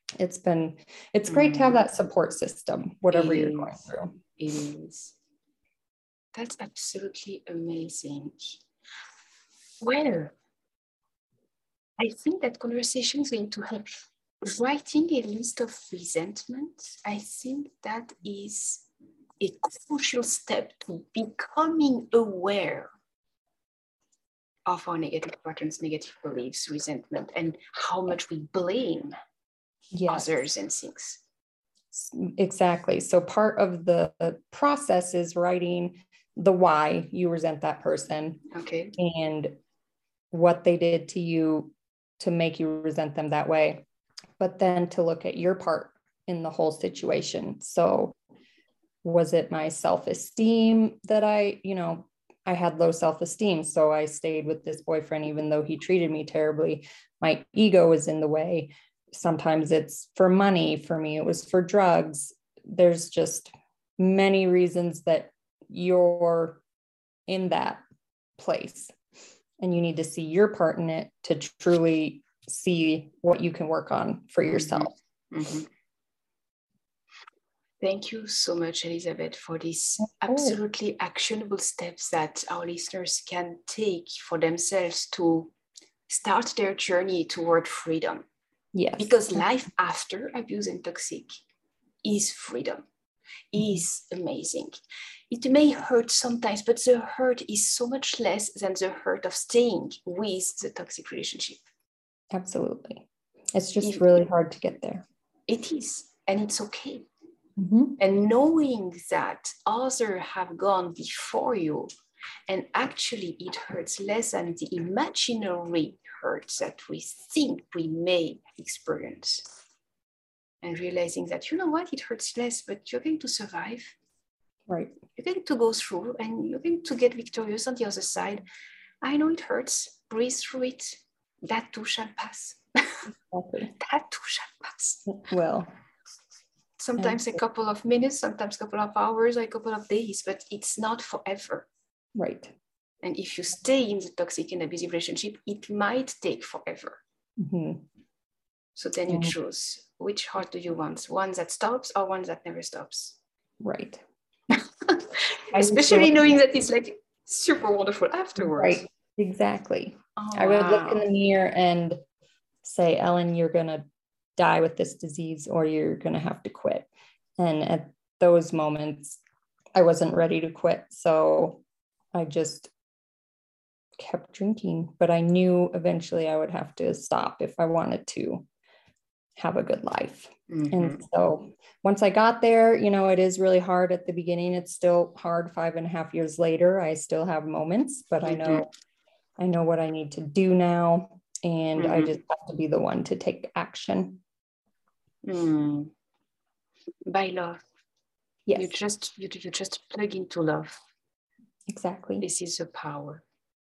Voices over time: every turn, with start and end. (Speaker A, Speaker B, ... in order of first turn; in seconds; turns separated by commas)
Speaker A: 0.2-4.1, Speaker B: 1.3-1.8, Speaker B: 3.1-3.8, Speaker B: 4.3-5.2, Speaker B: 6.3-8.6, Speaker B: 9.8-10.3, Speaker B: 12.0-18.9, Speaker B: 19.4-22.9, Speaker B: 24.6-29.1, Speaker A: 29.9-30.4, Speaker B: 30.1-31.2, Speaker A: 31.9-38.4, Speaker B: 38.5-39.0, Speaker A: 39.0-39.5, Speaker A: 40.3-43.8, Speaker A: 44.4-48.1, Speaker A: 49.0-66.6, Speaker A: 67.3-67.8, Speaker A: 68.4-68.9, Speaker A: 69.6-74.9, Speaker B: 74.5-75.7, Speaker B: 77.8-85.5, Speaker A: 80.2-80.6, Speaker B: 86.1-88.2, Speaker A: 88.7-89.4, Speaker B: 89.0-91.3, Speaker B: 92.0-92.8, Speaker B: 93.5-94.8, Speaker A: 93.6-93.8, Speaker B: 95.3-101.6, Speaker A: 102.3-105.0, Speaker B: 103.8-104.2, Speaker B: 105.5-107.1, Speaker A: 107.6-108.0, Speaker B: 108.0-111.9, Speaker B: 112.5-119.5, Speaker B: 120.6-124.0, Speaker A: 124.7-124.9, Speaker B: 125.2-128.4, Speaker B: 129.0-133.1, Speaker A: 133.3-133.7, Speaker B: 133.8-135.1, Speaker A: 135.1-135.7, Speaker B: 136.8-141.7, Speaker A: 137.0-137.3, Speaker A: 142.1-142.5, Speaker B: 143.0-147.0, Speaker A: 147.4-147.8, Speaker B: 148.8-153.2, Speaker A: 153.6-154.0, Speaker B: 154.5-158.9, Speaker A: 155.5-156.2, Speaker A: 158.4-162.0, Speaker B: 160.2-161.1, Speaker A: 162.6-163.8, Speaker A: 164.4-166.9, Speaker A: 167.4-169.2, Speaker A: 169.7-171.6, Speaker A: 172.1-172.7, Speaker A: 174.0-178.4, Speaker A: 179.4-188.7, Speaker B: 180.5-181.0, Speaker B: 188.2-188.7, Speaker A: 189.4-194.2, Speaker B: 191.8-192.2, Speaker B: 195.2-195.9, Speaker B: 197.1-197.6, Speaker A: 198.5-198.7, Speaker B: 198.5-200.8, Speaker A: 201.7-202.2, Speaker B: 202.2-203.2